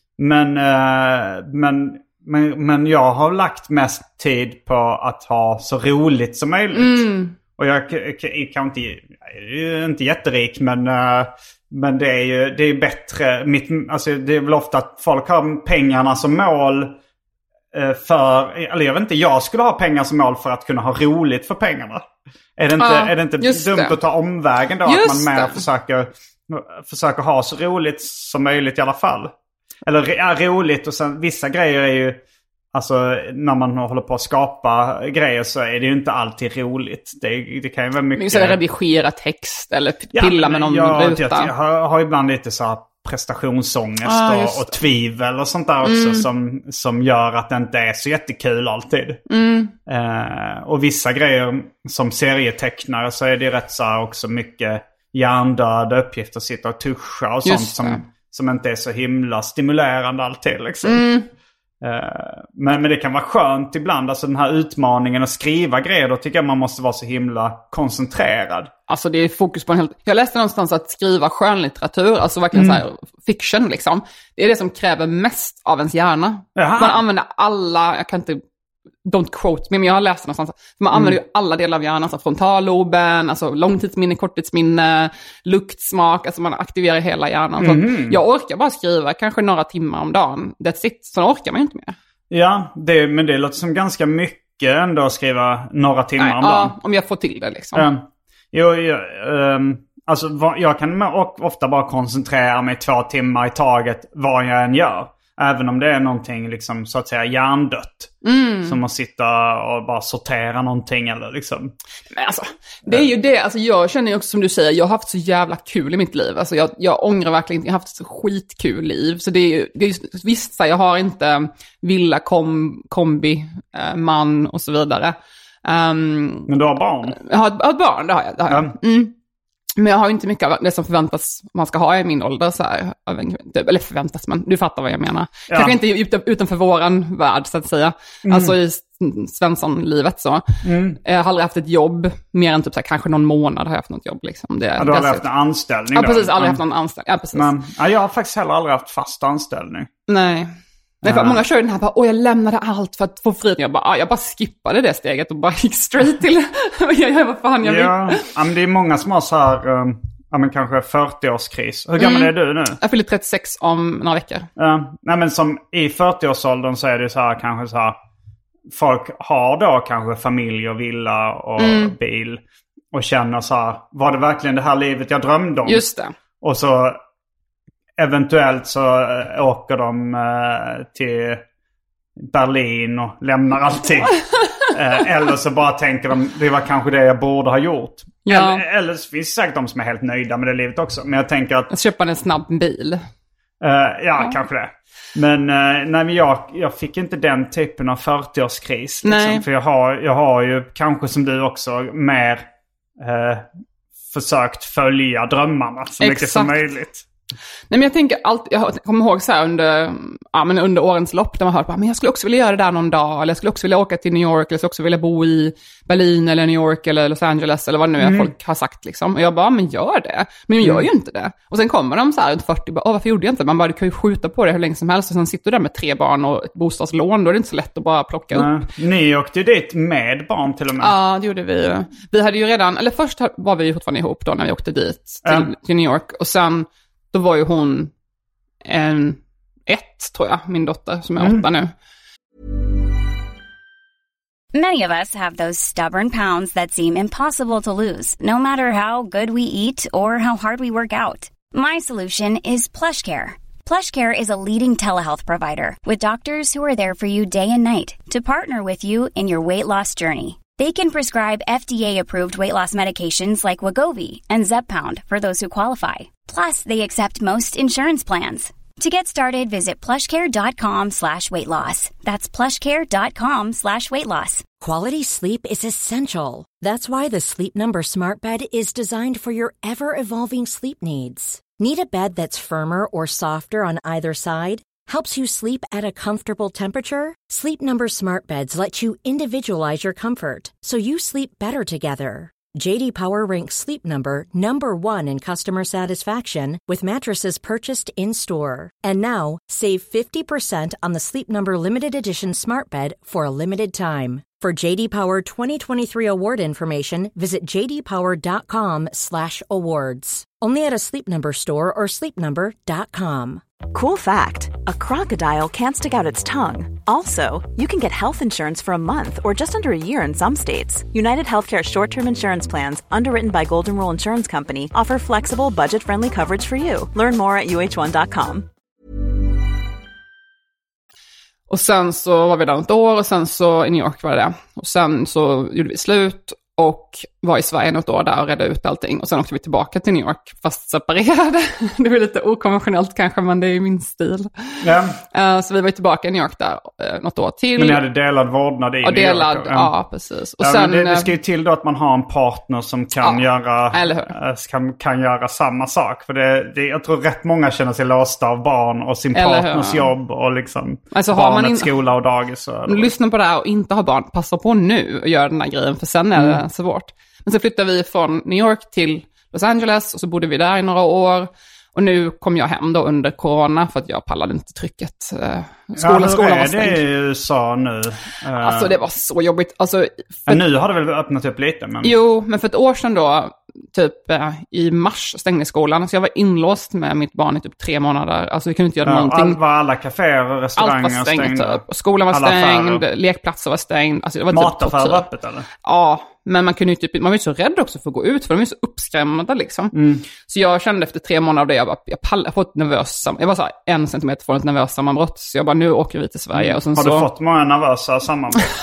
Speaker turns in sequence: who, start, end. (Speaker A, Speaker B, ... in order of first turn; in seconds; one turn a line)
Speaker A: 0.2-17.0
Speaker B: 6.7-7.4
Speaker A: 17.7-29.3
Speaker B: 22.8-24.0
Speaker B: 24.9-25.6
Speaker A: 29.9-32.2
Speaker A: 32.7-38.6
Speaker B: 38.2-41.5
Speaker A: 40.1-49.2
Speaker B: 44.0-44.8
Speaker B: 45.8-46.3
Speaker B: 49.3-49.7
Speaker A: 49.9-61.1
Speaker B: 57.4-58.0
Speaker B: 60.8-61.3
Speaker A: 61.8-68.7
Speaker B: 68.9-78.4
Speaker A: 72.5-72.8
Speaker A: 76.6-77.0
Speaker B: 79.0-92.0
Speaker A: 87.6-88.2
Speaker A: 92.3-96.8
Speaker B: 96.2-97.9
Speaker A: 97.7-111.7
Speaker B: 108.2-108.8
Speaker B: 112.1-126.5
Speaker A: 126.5-127.2
Speaker B: 127.2-129.1
Speaker A: 128.5-128.8
Speaker B: 129.8-145.3
Speaker A: 135.5-135.8
Speaker A: 138.2-138.6
Speaker A: 140.6-141.0
Speaker A: 144.8-146.6
Speaker B: 145.9-147.5
Speaker A: 147.3-149.9
Speaker B: 150.1-150.5
Speaker A: 151.0-151.4
Speaker B: 151.0-158.3
Speaker A: 157.6-162.8
Speaker B: 162.0-164.5
Speaker A: 164.6-168.0
Speaker A: 168.7-172.4
Speaker B: 171.6-171.9
Speaker A: 172.9-175.9
Speaker B: 175.7-176.1
Speaker A: 176.4-177.0
Speaker A: 178.0-181.4
Speaker A: 182.2-191.7
Speaker B: 188.3-188.6
Speaker B: 191.7-193.0
Speaker A: 193.6-203.5
Speaker B: 199.0-199.4
Speaker A: 204.1-207.1
Speaker B: 206.0-206.6
Speaker B: 207.7-228.5
Speaker A: 218.0-218.3
Speaker A: 220.6-220.9
Speaker A: 228.3-230.9
Speaker B: 230.8-237.9
Speaker A: 235.2-235.5
Speaker B: 238.7-241.7
Speaker A: 241.2-241.5
Speaker C: 244.5-274.4
Speaker D: 274.6-313.4
Speaker E: 313.7-328.5
Speaker B: 331.5-347.8
Speaker A: 344.6-345.0
Speaker A: 347.6-349.7
Speaker B: 348.8-351.1
Speaker A: 350.4-362.9
Speaker B: 353.0-354.1
Speaker B: 359.1-359.9
Speaker B: 360.9-361.7
Speaker B: 362.7-376.8
Speaker A: 375.8-378.8
Speaker B: 378.4-380.4
Speaker A: 380.3-381.9
Speaker B: 381.8-389.4
Speaker A: 388.8-392.9
Speaker B: 390.6-395.1
Speaker A: 394.3-395.5
Speaker B: 395.6-407.1
Speaker A: 399.7-400.1
Speaker A: 406.4-408.5